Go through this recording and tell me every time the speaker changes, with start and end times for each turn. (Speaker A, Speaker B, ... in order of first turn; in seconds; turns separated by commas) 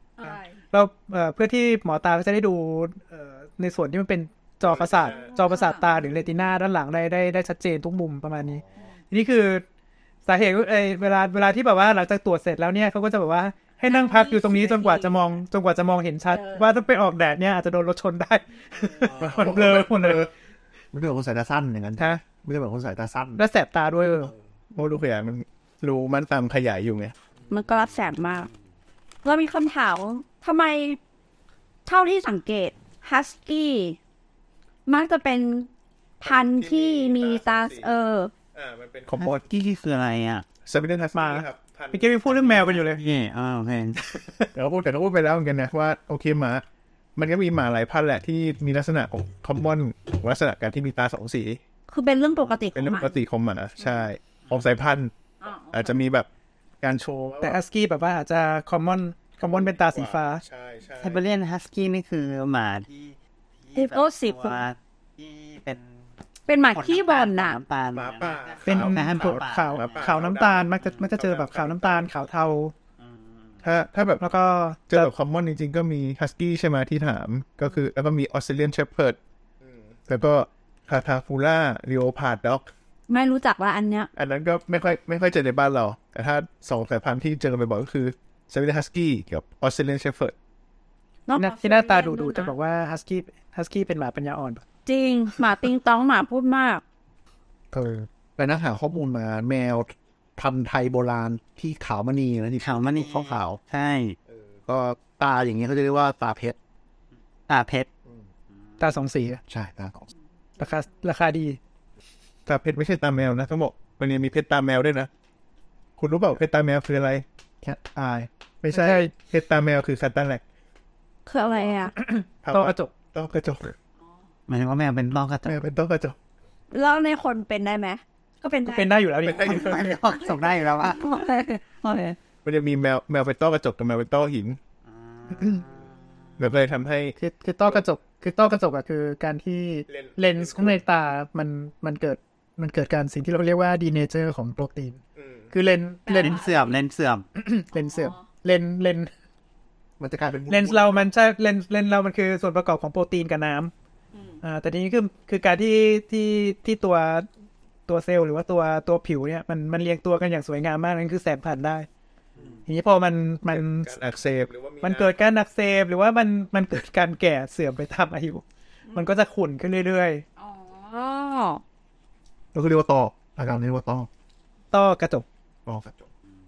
Speaker A: 0.2-0.6, Speaker B: 0.7-9.6, Speaker C: 4.7-5.2, Speaker A: 5.1-5.8, Speaker B: 10.2-20.3, Speaker A: 13.9-15.2, Speaker D: 19.1-20.3, Speaker D: 20.9-23.4, Speaker B: 23.4-24.3, Speaker C: 24.7-27.1, Speaker A: 27.5-28.5, Speaker A: 29.2-31.0, Speaker A: 31.9-34.0, Speaker A: 34.9-38.3, Speaker C: 36.2-37.9, Speaker C: 38.5-39.4, Speaker E: 39.1-40.4, Speaker C: 40.6-42.6, Speaker B: 41.1-43.0, Speaker E: 42.3-44.0, Speaker C: 44.5-46.6, Speaker C: 47.1-51.6, Speaker A: 51.9-53.2, Speaker C: 52.7-55.1, Speaker A: 53.8-54.0, Speaker A: 55.4-56.0, Speaker C: 55.7-56.3, Speaker C: 56.8-57.6, Speaker B: 57.4-60.4, Speaker C: 59.4-61.2, Speaker E: 61.0-65.9, Speaker A: 63.8-64.6, Speaker A: 66.5-67.6, Speaker E: 66.7-70.1, Speaker C: 67.9-72.0, Speaker B: 68.7-72.7, Speaker C: 73.6-74.2, Speaker B: 74.2-75.1, Speaker C: 74.9-82.7, Speaker A: 83.1-84.1, Speaker C: 84.1-90.3, Speaker A: 91.3-92.5, Speaker B: 91.3-94.6, Speaker A: 94.8-96.8, Speaker D: 97.7-103.6, Speaker E: 102.6-104.2, Speaker D: 104.3-106.6, Speaker E: 107.5-107.9, Speaker B: 108.8-109.4, Speaker D: 109.5-110.1, Speaker B: 110.6-111.6, Speaker C: 112.5-115.1, Speaker C: 116.0-117.2, Speaker D: 117.6-118.3, Speaker C: 118.6-120.4, Speaker B: 118.7-119.1, Speaker A: 121.2-121.9, Speaker B: 122.0-122.9, Speaker C: 122.4-123.7, Speaker E: 124.5-125.6, Speaker C: 125.4-126.2, Speaker A: 126.7-128.9, Speaker B: 128.6-129.4, Speaker C: 129.2-130.0, Speaker E: 129.3-131.2, Speaker A: 130.8-132.2, Speaker C: 132.4-134.6, Speaker E: 135.1-135.8, Speaker B: 135.3-135.6, Speaker C: 136.4-137.8, Speaker B: 137.2-145.0, Speaker C: 139.9-140.8, Speaker C: 145.2-145.5, Speaker B: 145.5-146.4, Speaker A: 146.1-146.7, Speaker E: 146.2-147.2, Speaker B: 147.3-149.1, Speaker A: 147.7-148.2, Speaker D: 150.0-151.0, Speaker B: 150.5-153.7, Speaker A: 154.1-154.4, Speaker B: 154.4-157.3, Speaker B: 157.9-161.9, Speaker B: 162.7-163.9, Speaker C: 163.5-165.2, Speaker B: 164.8-170.2, Speaker A: 168.9-169.1, Speaker A: 170.4-171.6, Speaker D: 172.5-174.1, Speaker B: 174.7-175.2, Speaker D: 175.7-176.0